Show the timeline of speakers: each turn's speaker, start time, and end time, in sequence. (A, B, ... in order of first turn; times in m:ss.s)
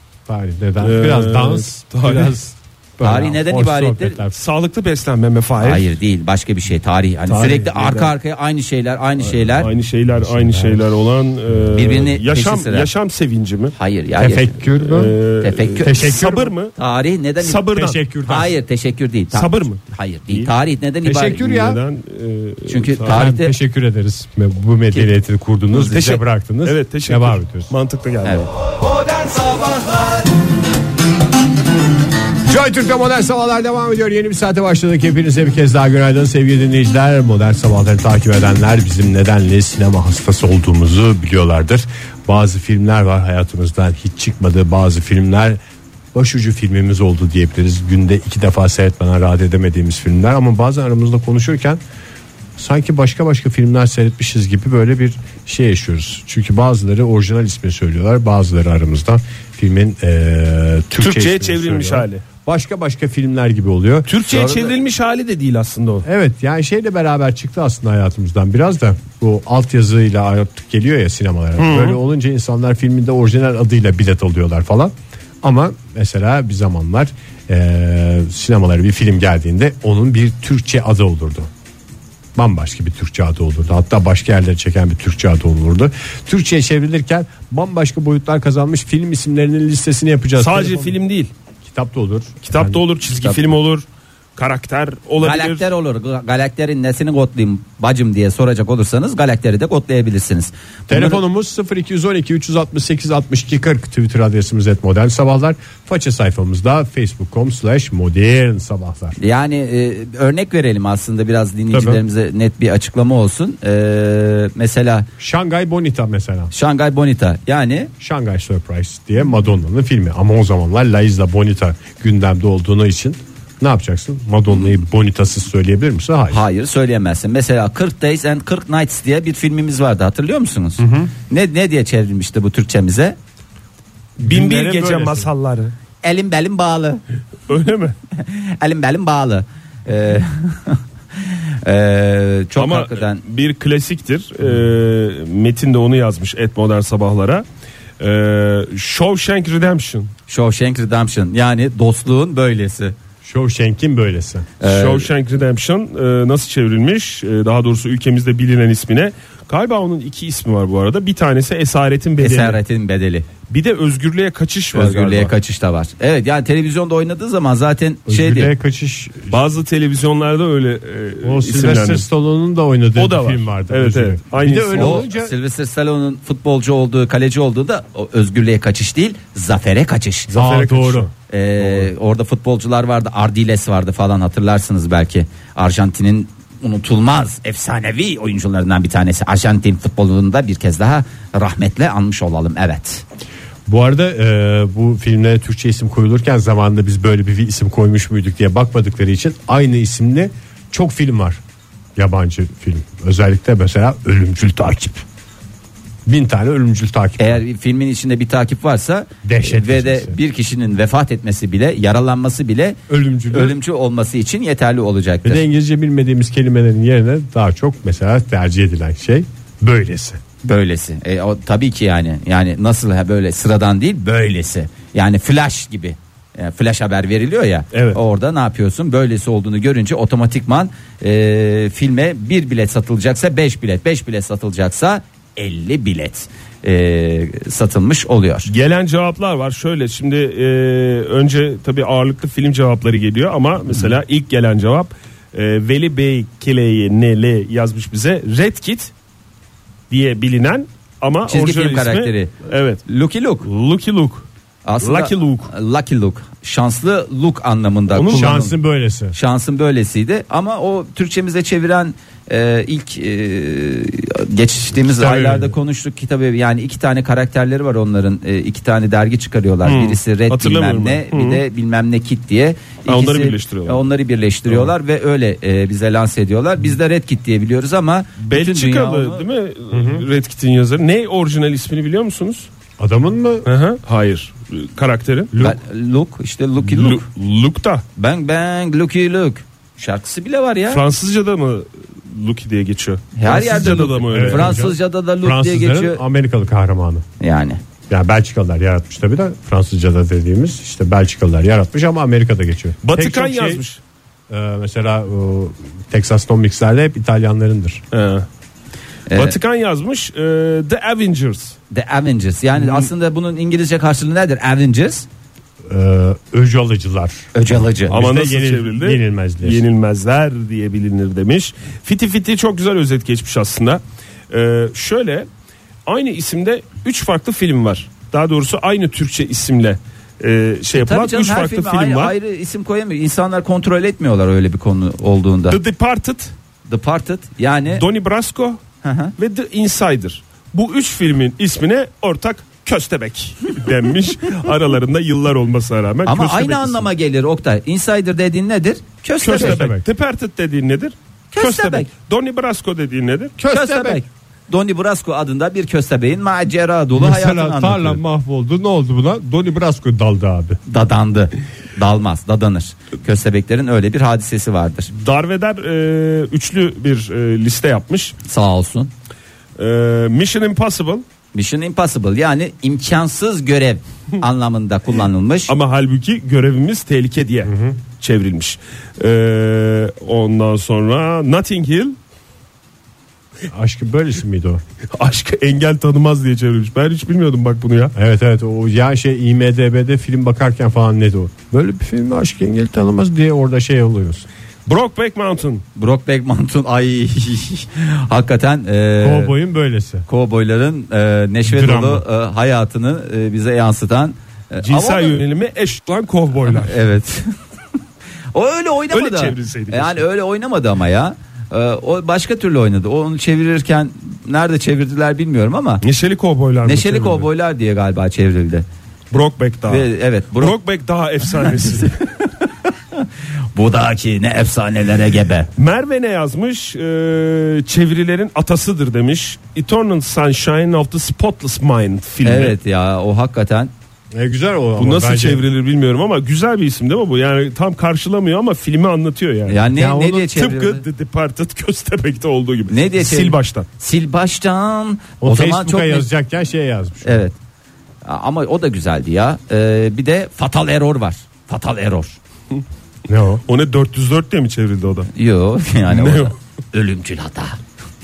0:00.3-0:04.3 A
0:00.8-0:02.3 B
0:03.0-0:04.2 C
0:04.3-0:05.9 B
0:05.6-0:09.7 C
0:07.3-0:08.0 A
0:09.3-0:13.8 B
0:10.1-0:10.9 A
0:11.7-0:12.9 C
0:13.8-0:14.6 C
0:14.2-0:15.2 A
0:14.8-0:16.8 B
0:15.4-0:16.1 C
0:15.8-0:16.5 A
0:16.8-0:17.7 C
0:17.4-0:18.0 B
0:17.7-0:18.5 A
0:18.3-0:21.4 C
0:19.3-0:20.5 B
0:21.0-0:21.8 A
0:21.4-0:23.2 B
0:22.7-0:23.6 C
0:23.1-0:27.7 A
0:25.7-0:26.1 C
0:25.9-0:28.5 B
0:28.2-0:28.5 C
0:32.5-0:45.6 A
0:46.1-0:51.8 A
0:52.6-1:04.1 A
1:01.0-1:02.2 B
1:04.1-1:06.0 B
1:04.2-1:04.8 C
1:06.0-1:21.5 A
1:11.6-1:12.0 B
1:22.4-1:31.0 A
1:30.4-1:31.3 B
1:31.6-1:32.8 A
1:32.5-1:33.9 B
1:33.1-1:33.6 C
1:34.4-1:35.6 B
1:35.2-1:41.2 C
1:40.9-1:49.2 A
1:49.2-1:55.1 C
1:51.7-1:52.0 A
1:55.2-1:56.5 A
1:56.5-1:57.9 C
1:58.0-2:06.4 A
2:06.3-2:13.2 C
2:10.8-2:11.1 A
2:14.2-2:15.3 A
2:14.2-2:15.7 B
2:16.0-2:17.0 C
2:17.5-2:18.0 B
2:18.2-2:23.2 C
2:22.6-2:27.4 B
2:28.0-2:30.1 B
2:30.3-2:33.0 C
2:33.2-2:34.5 A
2:34.6-2:35.1 C
2:34.6-2:42.6 B
2:42.2-2:43.3 C
2:43.5-2:45.3 B
2:44.7-2:48.5 C
2:48.1-2:49.4 A
2:49.3-2:52.1 B
2:51.2-2:55.3 A
2:53.0-2:55.1 B
2:54.8-3:00.3 C
3:00.3-3:01.1 B
3:00.3-3:01.1 A
3:01.3-3:13.0 C
3:13.7-3:21.4 A
3:22.0-3:25.0 A
3:26.1-3:27.4 A
3:27.2-3:32.8 C
3:29.2-3:30.2 A
3:32.9-3:33.6 A
3:33.3-3:35.4 C
3:35.2-3:40.2 A
3:40.4-3:58.5 C
3:47.7-3:48.0 B
3:58.5-4:08.9 B
4:09.9-4:12.8 B
4:11.3-4:13.5 C
4:13.4-4:14.3 B
4:14.6-4:18.6 C
4:14.8-4:15.5 B
4:17.9-4:18.4 B
4:18.1-4:19.2 A
4:19.1-4:39.3 C
4:25.0-4:25.4 A
4:25.0-4:25.4 B
4:29.6-4:31.4 B
4:32.9-4:33.8 B
4:34.5-4:34.7 B
4:38.2-4:42.5 B
4:39.7-4:40.0 A
4:42.8-4:43.5 A
4:43.4-4:45.4 B
4:45.4-4:47.1 C
4:46.6-4:47.8 B
4:48.0-4:50.8 C
4:50.7-4:54.7 B
4:53.2-4:56.0 C
4:53.3-4:57.0 A
4:57.2-4:57.6 C
4:57.9-5:03.6 A
5:02.8-5:03.8 B
5:04.3-5:07.8 A
5:07.9-5:08.3 B
5:09.1-5:09.4 C
5:09.1-5:11.6 B
5:11.7-5:15.1 C
5:12.6-5:12.9 B
5:15.7-5:17.3 A
5:17.4-5:18.0 C
5:17.9-5:19.6 A
5:17.9-5:25.3 B
5:25.9-5:32.2 B
5:30.7-5:35.6 C
5:35.5-5:36.4 B
5:36.7-5:37.8 C
5:37.7-5:38.6 B
5:38.8-5:39.1 C
5:39.2-5:46.9 B
5:46.0-5:49.6 C
5:49.2-5:53.4 B
5:49.3-5:49.8 A
5:51.3-5:51.9 C
5:53.4-5:54.0 A
5:53.5-5:58.0 C
5:56.9-6:00.6 A
6:00.7-6:04.9 C
6:04.9-6:08.2 B
6:08.2-6:08.9 C
6:09.6-6:11.0 B
6:11.3-6:15.5 C
6:15.5-6:22.0 B
6:17.4-6:17.8 A
6:23.5-6:24.6 A
6:24.9-6:27.9 B
6:28.0-6:34.3 A
6:34.7-6:35.6 B
6:35.8-6:39.4 C
6:39.0-6:40.1 A
6:40.1-6:45.2 C
6:41.5-6:42.0 A
6:44.6-6:46.8 B
6:46.5-6:47.3 C
6:48.3-6:55.8 C
6:48.9-6:50.0 B
6:55.8-6:57.3 B
6:56.6-6:58.7 C
6:59.1-7:02.0 B
6:59.7-7:00.6 C
7:01.5-7:01.7 C
7:02.9-7:05.5 C
7:05.6-7:12.6 B
7:12.2-7:13.7 C
7:14.1-7:15.4 A
7:14.8-7:19.6 B
7:19.5-7:20.8 C
7:19.7-7:20.3 A
7:20.3-7:23.7 B
7:22.7-7:26.1 C
7:25.2-7:27.2 A
7:27.0-7:27.4 C
7:28.0-7:32.2 C
7:33.1-7:33.4 A
7:33.5-7:35.1 B
7:35.1-7:37.6 C
7:35.9-7:36.3 B